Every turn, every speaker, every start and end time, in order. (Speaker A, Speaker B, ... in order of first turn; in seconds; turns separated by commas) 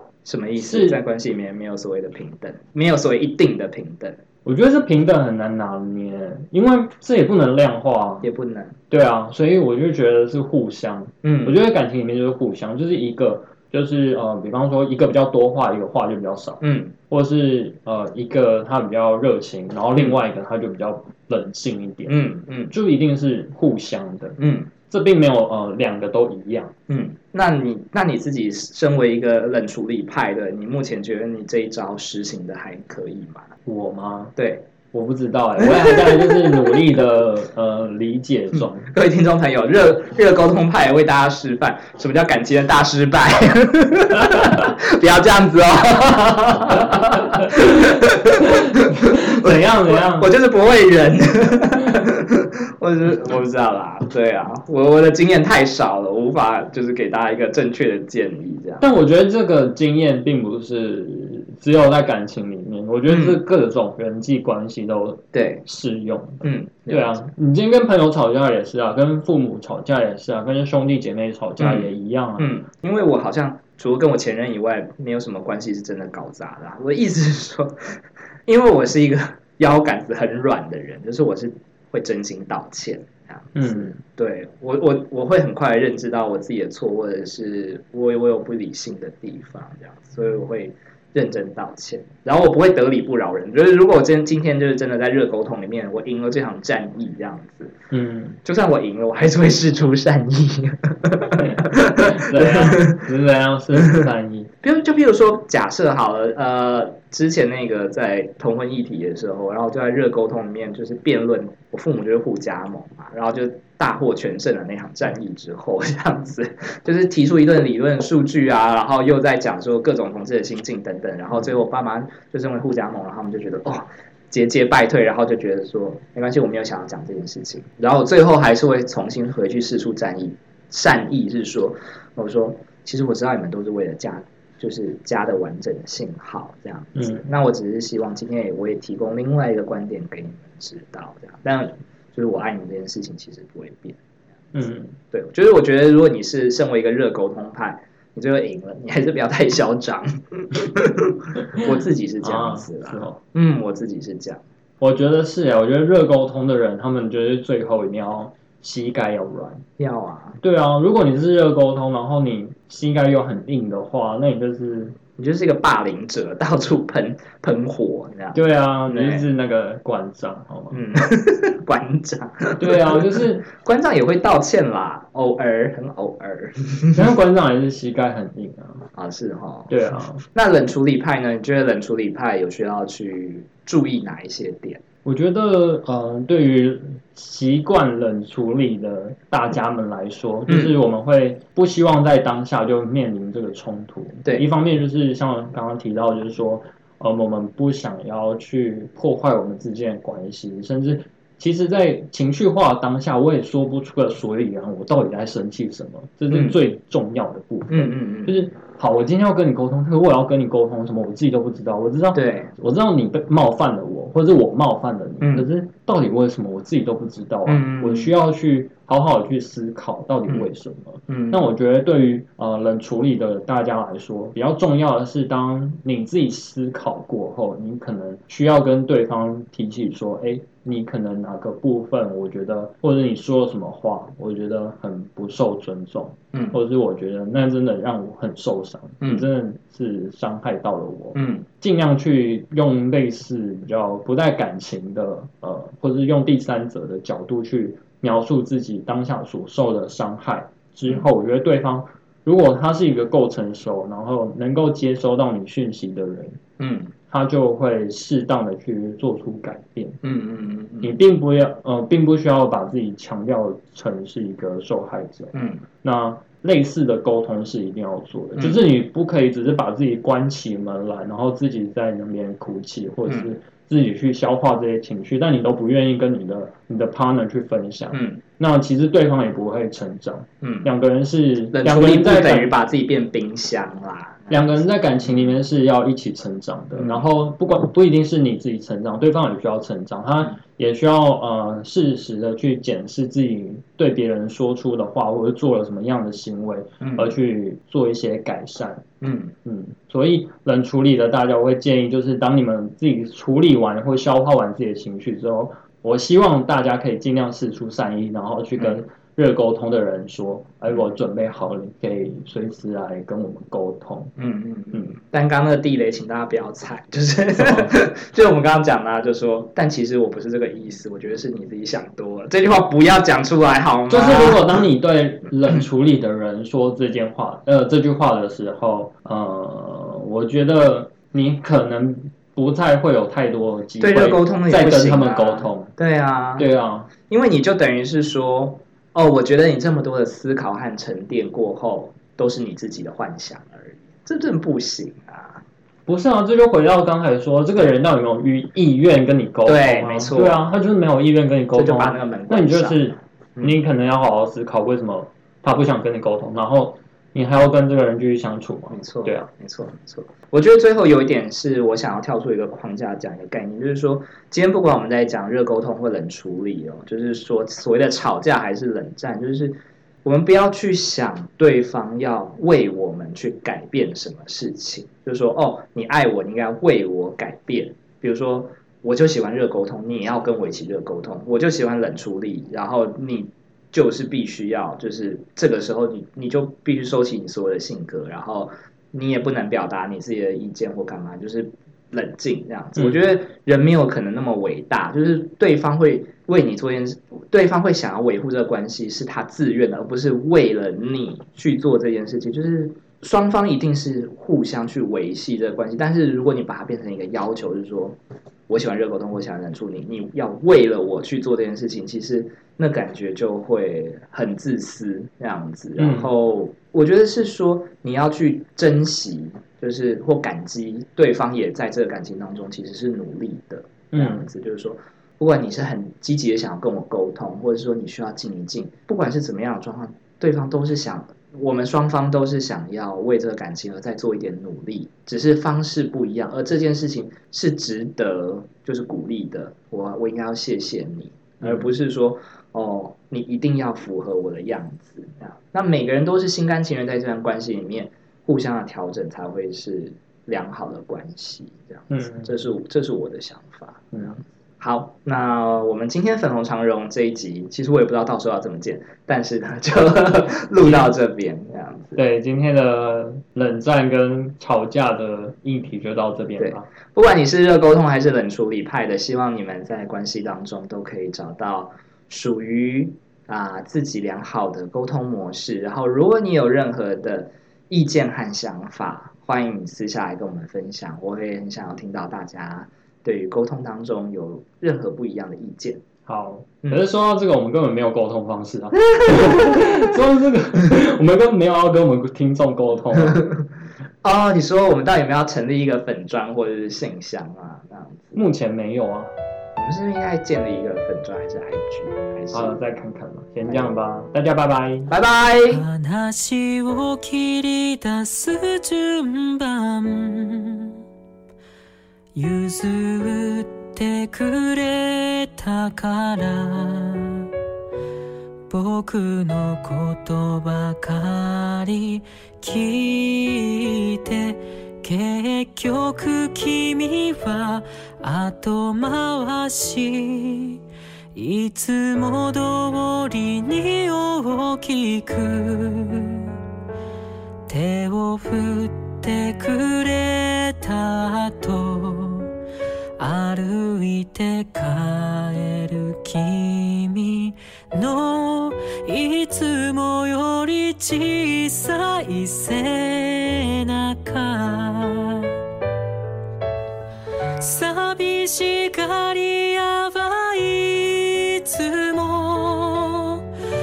Speaker A: 0.2-4.2, Speaker B: 0.6-1.0, Speaker B: 4.5-8.3, Speaker A: 8.2-8.8, Speaker B: 8.9-22.2, Speaker A: 11.2-11.6, Speaker A: 16.6-16.9, Speaker A: 22.1-22.7, Speaker B: 22.7-24.4, Speaker A: 24.4-24.7, Speaker B: 24.9-26.7, Speaker A: 26.9-33.5, Speaker B: 33.7-34.3, Speaker A: 34.4-34.7, Speaker B: 34.9-38.9, Speaker A: 35.6-36.7, Speaker A: 38.9-58.9, Speaker B: 47.3-50.3, Speaker B: 58.8-72.6, Speaker A: 63.1-63.4, Speaker A: 65.3-65.7, Speaker A: 66.4-67.3, Speaker A: 71.6-77.8, Speaker A: 78.5-97.8, Speaker B: 83.6-84.0, Speaker B: 97.9-98.4, Speaker A: 98.4-103.0, Speaker B: 101.4-104.5, Speaker A: 104.6-144.0, Speaker B: 137.0-137.3, Speaker B: 144.5-144.9, Speaker A: 145.1-154.4, Speaker B: 152.2-153.2, Speaker B: 154.8-159.6, Speaker A: 159.8-160.4, Speaker B: 160.4-165.0, Speaker A: 165.2-169.3, Speaker B: 168.3-170.8, Speaker A: 170.7-177.1, Speaker B: 172.6-173.4, Speaker B: 176.9-178.8, Speaker A: 178.9-184.8, Speaker B: 179.7-180.2, Speaker B: 185.1-256.4, Speaker A: 190.5-190.8, Speaker A: 206.3-206.6, Speaker A: 207.7-208.4, Speaker A: 212.1-212.5, Speaker A: 215.2-215.5, Speaker A: 217.5-218.2, Speaker A: 221.1-221.5, Speaker A: 239.0-239.3, Speaker A: 241.2-241.5, Speaker A: 256.6-256.9, Speaker B: 257.1-260.0, Speaker A: 260.0-261.0, Speaker B: 260.8-282.5, Speaker A: 265.3-265.6, Speaker A: 268.4-268.6, Speaker A: 273.1-273.3, Speaker A: 277.9-278.2, Speaker A: 280.4-280.7, Speaker A: 281.5-285.4, Speaker B: 284.3-298.9, Speaker A: 286.8-287.1, Speaker A: 296.8-297.1, Speaker A: 299.0-299.3, Speaker B: 299.4-314.1, Speaker A: 314.2-324.6, Speaker B: 317.4-317.8, Speaker B: 323.9-335.7, Speaker A: 333.8-336.5, Speaker B: 336.4-336.9, Speaker A: 337.1-345.4, Speaker B: 345.9-359.3, Speaker A: 349.5-350.5, Speaker A: 351.5-353.6, Speaker A: 358.7-408.0, Speaker B: 392.8-393.0, Speaker A: 408.5-462.0, Speaker B: 415.8-416.1, Speaker B: 423.9-424.3, Speaker B: 441.4-441.7, Speaker B: 451.9-452.4, Speaker B: 453.9-454.2, Speaker B: 460.6-460.9, Speaker B: 462.0-466.7, Speaker A: 466.4-485.8, Speaker B: 486.1-493.2, Speaker A: 489.0-489.6, Speaker A: 493.0-493.4, Speaker A: 494.0-498.2, Speaker B: 498.1-499.1, Speaker A: 499.6-502.6, Speaker B: 502.3-504.9, Speaker A: 503.4-503.8, Speaker A: 504.9-505.6, Speaker C: 505.5-510.8, Speaker C: 512.1-517.3, Speaker C: 518.5-530.6, Speaker C: 531.1-536.4, Speaker C: 537.5-542.4, Speaker C: 543.0-555.4, Speaker C: 557.4-563.2